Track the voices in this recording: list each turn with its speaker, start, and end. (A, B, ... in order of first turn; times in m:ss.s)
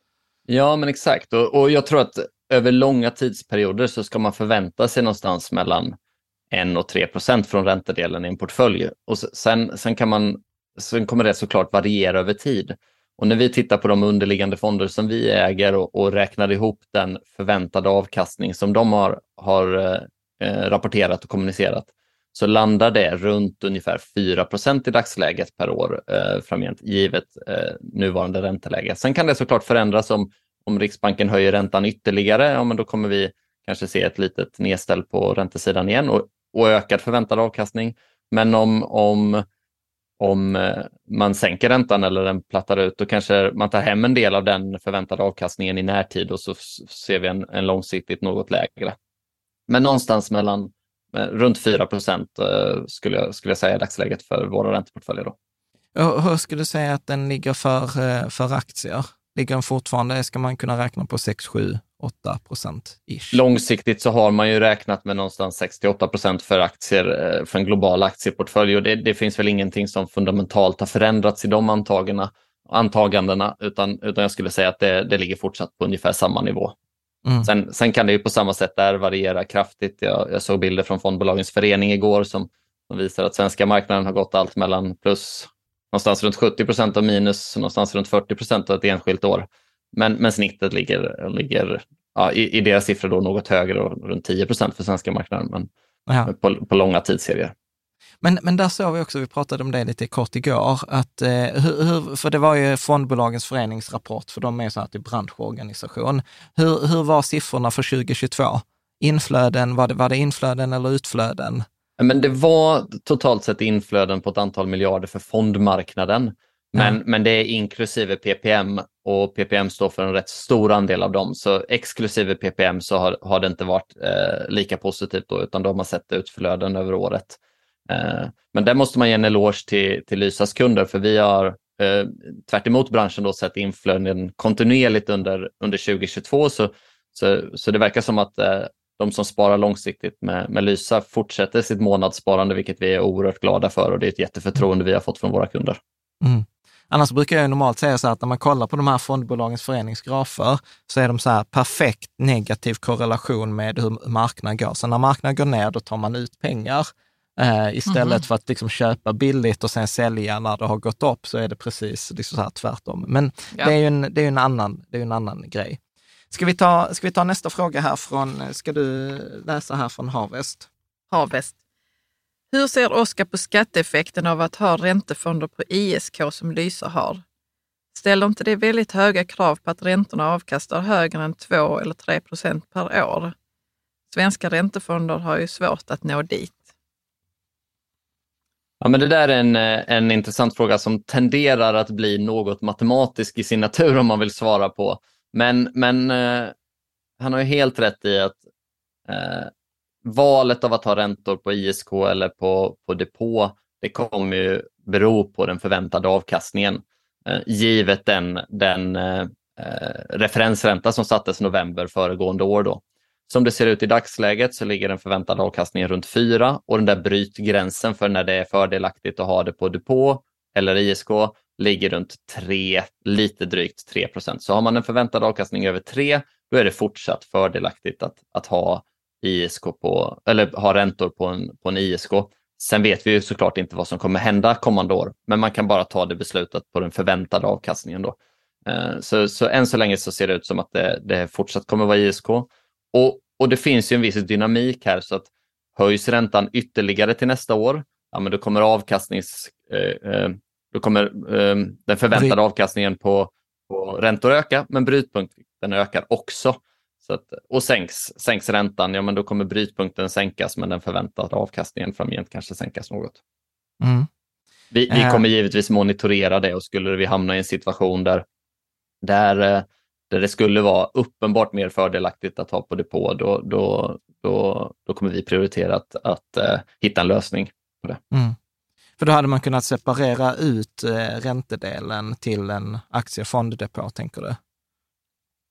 0:00.5-0:06.0 A
0:06.5-0:39.4 A
0:40.2-0:49.0 A
0:49.7-0:55.4 A
0:56.0-1:03.4 B
1:03.3-1:16.8 A
1:17.4-1:35.7 A
1:36.3-1:37.5 A
1:38.2-1:51.7 B
1:52.0-2:25.8 A
2:26.2-2:45.8 B
2:37.9-2:38.2 C
2:46.3-2:50.7 B
2:51.1-2:51.6 C
2:52.5-2:57.2 C
2:58.0-3:03.3 C
3:04.1-3:06.6 C
3:08.8-3:16.5 A
3:17.2-3:18.4 A
3:19.1-3:19.5 A
3:20.0-4:23.2 A
4:23.8-4:24.1 B
4:24.7-4:28.2 A
4:24.9-4:25.2 B
4:29.0-4:38.0 A
4:38.1-4:38.4 B
4:39.0-4:44.4 B